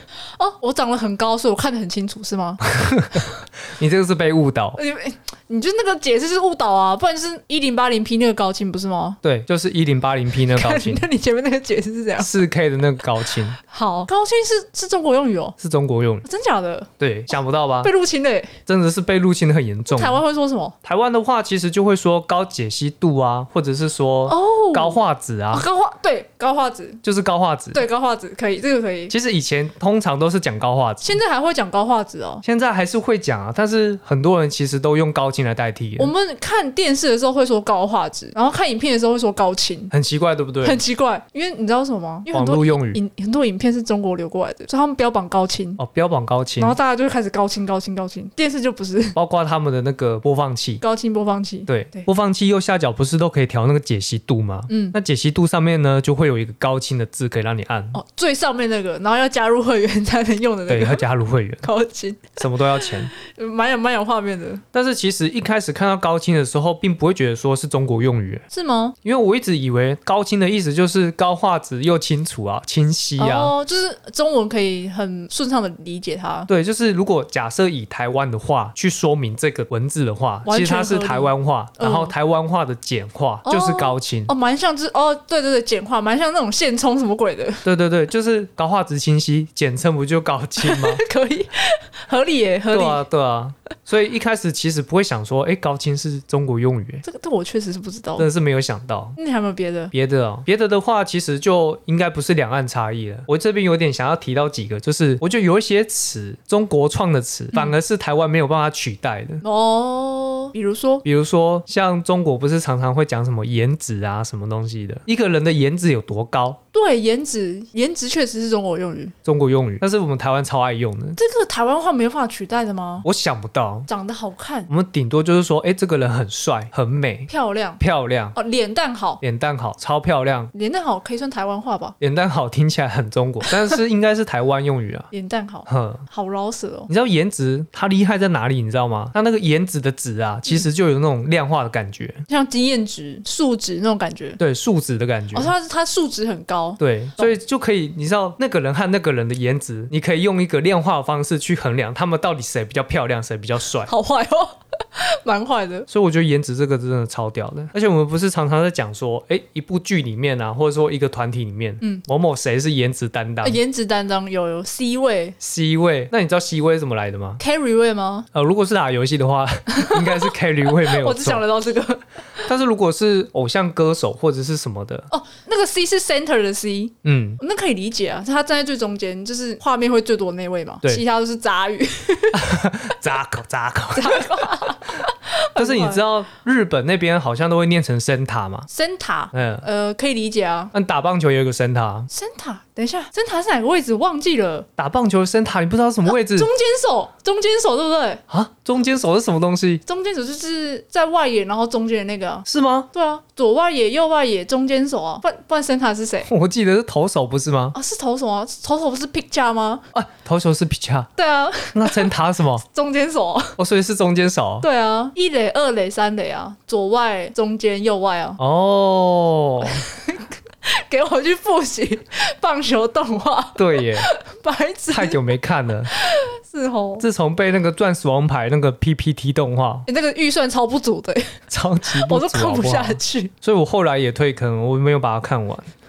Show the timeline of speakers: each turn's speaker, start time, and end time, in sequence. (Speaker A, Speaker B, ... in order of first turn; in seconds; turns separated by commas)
Speaker A: 0.3-2.6, Speaker B: 2.7-4.8, Speaker A: 4.8-9.2, Speaker B: 9.2-11.1, Speaker A: 10.4-12.4, Speaker B: 12.2-13.6, Speaker A: 13.6-15.6, Speaker B: 15.6-16.2, Speaker A: 16.2-16.9, Speaker B: 17.0-17.9, Speaker A: 17.8-18.5, Speaker B: 18.6-20.2, Speaker A: 19.9-20.7, Speaker B: 20.8-25.6, Speaker A: 24.3-25.0, Speaker A: 25.5-27.0, Speaker B: 27.0-27.8, Speaker A: 27.7-29.1, Speaker B: 29.1-31.2, Speaker A: 31.0-32.4, Speaker B: 32.4-36.1, Speaker A: 36.0-39.9, Speaker B: 39.9-40.8, Speaker A: 40.6-45.8, Speaker B: 42.3-43.0, Speaker B: 45.8-46.8, Speaker A: 46.6-49.2, Speaker B: 49.1-50.8, Speaker A: 50.8-52.1, Speaker B: 51.7-58.0, Speaker A: 54.7-55.0, Speaker A: 57.9-61.0, Speaker B: 60.7-61.7, Speaker A: 61.6-64.6, Speaker B: 62.4-63.1, Speaker B: 64.7-68.4, Speaker A: 68.5-69.0, Speaker B: 69.0-73.5, Speaker A: 73.2-76.5, Speaker B: 76.5-84.3, Speaker A: 80.5-82.1, Speaker A: 83.5-87.6, Speaker B: 87.6-91.0, Speaker A: 90.6-93.0, Speaker B: 92.7-97.0, Speaker A: 97.0-98.3, Speaker B: 98.2-99.2, Speaker A: 99.2-99.9, Speaker B: 99.9-109.4, Speaker A: 109.4-111.0, Speaker B: 111.0-116.6, Speaker A: 116.7-119.1, Speaker B: 119.2-121.2, Speaker A: 121.2-123.0, Speaker B: 123.0-123.9, Speaker A: 123.9-124.7, Speaker B: 124.7-128.4, Speaker A: 127.3-127.8, Speaker A: 128.3-129.2, Speaker B: 129.2-130.5, Speaker A: 130.5-131.9, Speaker B: 132.0-135.1, Speaker A: 135.1-136.9, Speaker B: 135.7-136.0, Speaker B: 136.9-142.2, Speaker A: 142.3-144.4, Speaker B: 144.4-145.5, Speaker A: 145.3-147.3, Speaker B: 146.8-153.9, Speaker A: 153.8-155.9, Speaker B: 155.9-163.6, Speaker A: 163.4-165.4, Speaker B: 165.4-167.4, Speaker A: 167.4-168.3, Speaker B: 168.3-171.4, Speaker A: 169.7-172.5, Speaker B: 172.4-175.1, Speaker A: 175.1-182.9, Speaker B: 177.0-177.4, Speaker B: 182.3-184.5, Speaker A: 183.9-186.0, Speaker B: 185.6-188.7, Speaker A: 188.7-190.7, Speaker B: 189.3-189.6, Speaker B: 190.7-192.1, Speaker A: 192.1-194.7, Speaker B: 194.8-196.5, Speaker A: 196.1-198.2, Speaker B: 198.3-199.8, Speaker A: 199.8-206.3, Speaker B: 202.4-202.9, Speaker B: 206.2-207.8, Speaker A: 207.7-209.8, Speaker B: 209.9-211.1, Speaker A: 211.2-213.6, Speaker B: 211.7-212.6, Speaker B: 213.6-214.7, Speaker A: 214.6-218.4, Speaker B: 218.4-219.8, Speaker A: 219.6-225.3, Speaker B: 223.6-224.1, Speaker B: 224.9-225.9, Speaker A: 225.9-227.1, Speaker B: 227.0-229.9, Speaker A: 229.9-231.3, Speaker B: 231.5-235.7, Speaker A: 231.9-233.3